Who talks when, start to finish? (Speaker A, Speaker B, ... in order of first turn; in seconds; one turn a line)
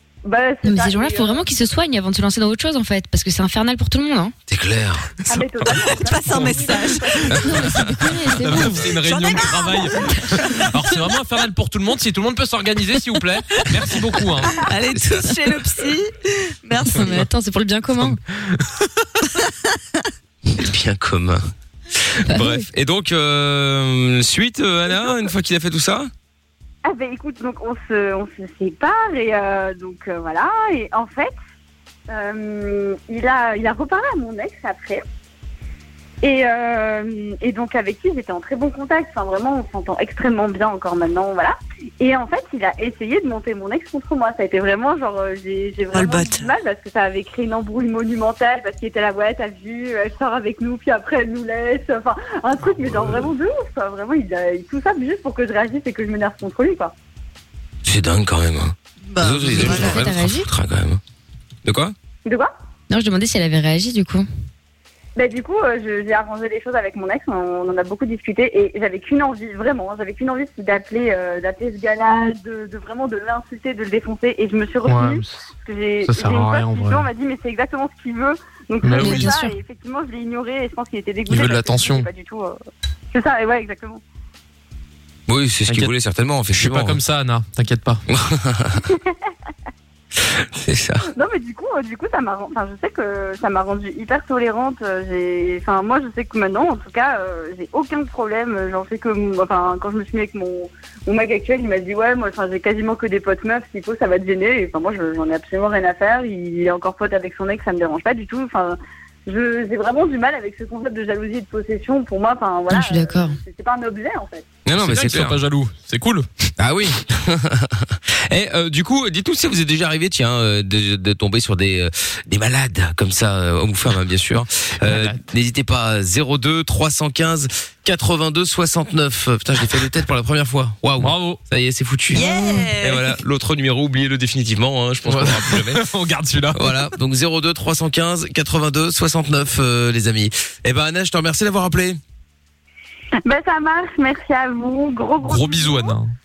Speaker A: 0.2-1.4
Speaker B: 0.6-4.3
Speaker C: 4.5-5.1
Speaker A: 5.3-7.4
Speaker D: 5.9-7.3
Speaker C: 7.3-7.9
Speaker B: 7.3-8.9
Speaker E: 8.3-14.7
Speaker D: 9.0-10.7
Speaker D: 14.5-17.3
Speaker B: 16.9-18.2
Speaker E: 18.0-18.6
Speaker D: 19.4-19.8
Speaker C: 20.5-21.4
Speaker C: 21.9-26.1
Speaker B: 22.3-22.6
Speaker A: 26.9-31.3
Speaker A: 32.1-35.0
Speaker A: 36.2-56.9
Speaker D: 45.9-46.5
Speaker C: 57.8-61.0
Speaker D: 59.1-60.1
Speaker B: 59.5-60.5
Speaker C: 61.6-61.9
Speaker A: 62.2-62.5
Speaker B: 62.9-64.3
Speaker A: 65.2-82.6
Speaker E: 74.8-75.4
Speaker E: 76.1-77.1
Speaker E: 78.8-79.3
Speaker B: 79.0-79.6
Speaker E: 81.3-82.1
Speaker A: 83.1-84.0
Speaker C: 85.3-87.0
Speaker E: 86.5-88.0
Speaker C: 88.1-88.8
Speaker C: 90.2-91.1
Speaker A: 91.1-114.5
Speaker B: 112.7-113.4
Speaker C: 114.7-115.4
Speaker E: 114.8-116.3
Speaker C: 116.6-135.8
Speaker E: 124.8-125.2
Speaker E: 131.0-131.4
Speaker D: 132.1-133.2
Speaker E: 135.1-136.9
Speaker C: 136.5-142.0
Speaker A: 143.2-145.9
Speaker E: 145.2-146.2